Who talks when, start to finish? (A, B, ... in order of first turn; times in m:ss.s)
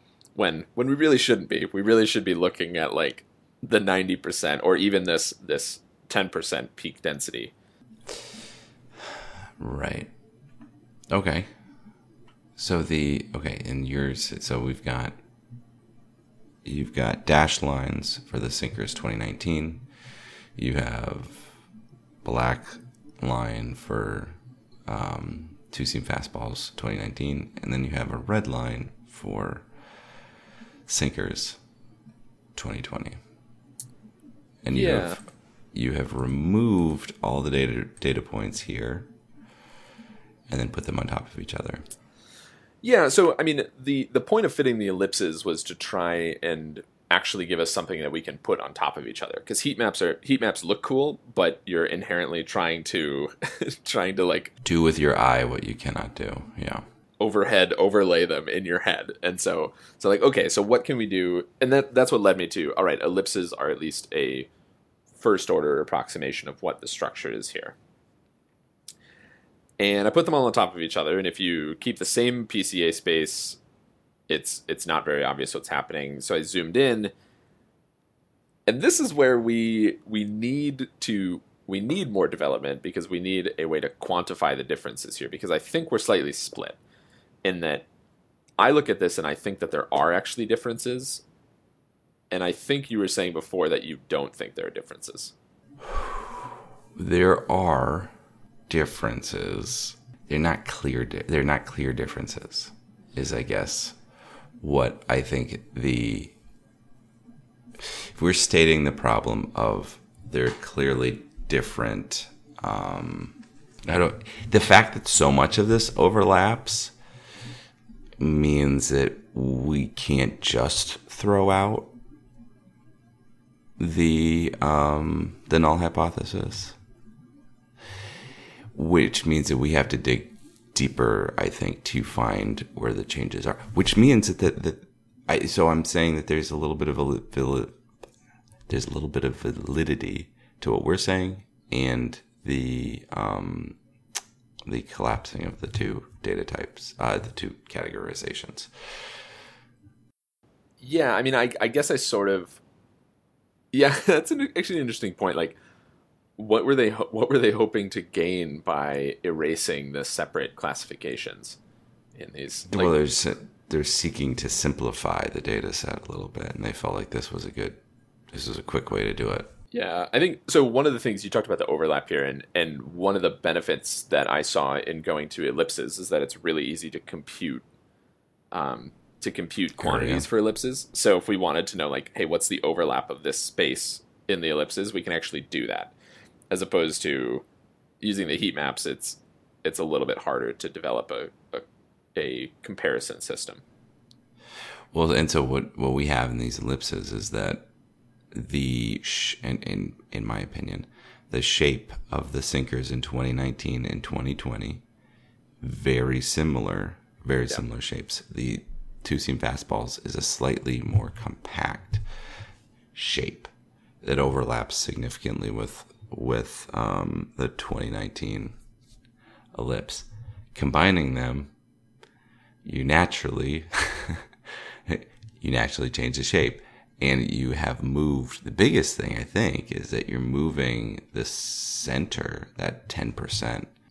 0:00.3-0:07.5 A
0:09.6-0:10.1 B
0:11.1-0:11.5 B
0:12.6-0:15.2 B
0:16.6-0:19.9 B
0:20.6-0:21.6 B
0:22.2-0:24.4 B
0:24.9-0:29.7 B
0:30.9-0:31.6 B
0:32.5-0:33.2 B
0:34.6-0:39.1 B
0:34.7-0:35.2 A
0:40.5-0:41.8 B
0:42.8-0:54.5 A
0:54.6-0:56.8 B
0:57.2-1:04.5 A
1:05.2-1:07.8 A
1:09.8-1:13.6 A
1:14.3-1:17.1 A
1:18.6-1:26.8 A
1:27.4-1:27.8 A
1:28.6-1:31.2 A
1:32.3-1:35.3 A
1:35.9-1:36.4 B
1:37.0-1:38.1 B
1:38.7-1:44.0 B
1:44.6-1:46.3 B
1:47.8-1:57.0 B
1:58.2-2:01.9 B
2:03.8-2:06.8 B
2:08.7-2:17.8 B
2:18.7-2:23.8 B
2:24.6-2:28.7 B
2:30.8-2:32.6 A
2:33.7-2:35.6 A
2:36.4-2:41.6 A
2:42.1-2:42.9 A
2:42.7-2:49.5 B
2:49.7-2:57.6 A
2:58.5-3:05.9 A
2:59.8-3:00.3 B
3:06.5-3:07.4 A
3:08.0-3:11.6 A
3:12.1-3:13.6 A
3:14.9-3:17.7 B
3:18.3-3:24.8 B
3:25.6-3:32.0 B
3:32.9-3:33.5 B
3:34.0-3:38.6 B
3:39.5-3:41.5 B
3:42.6-3:53.7 B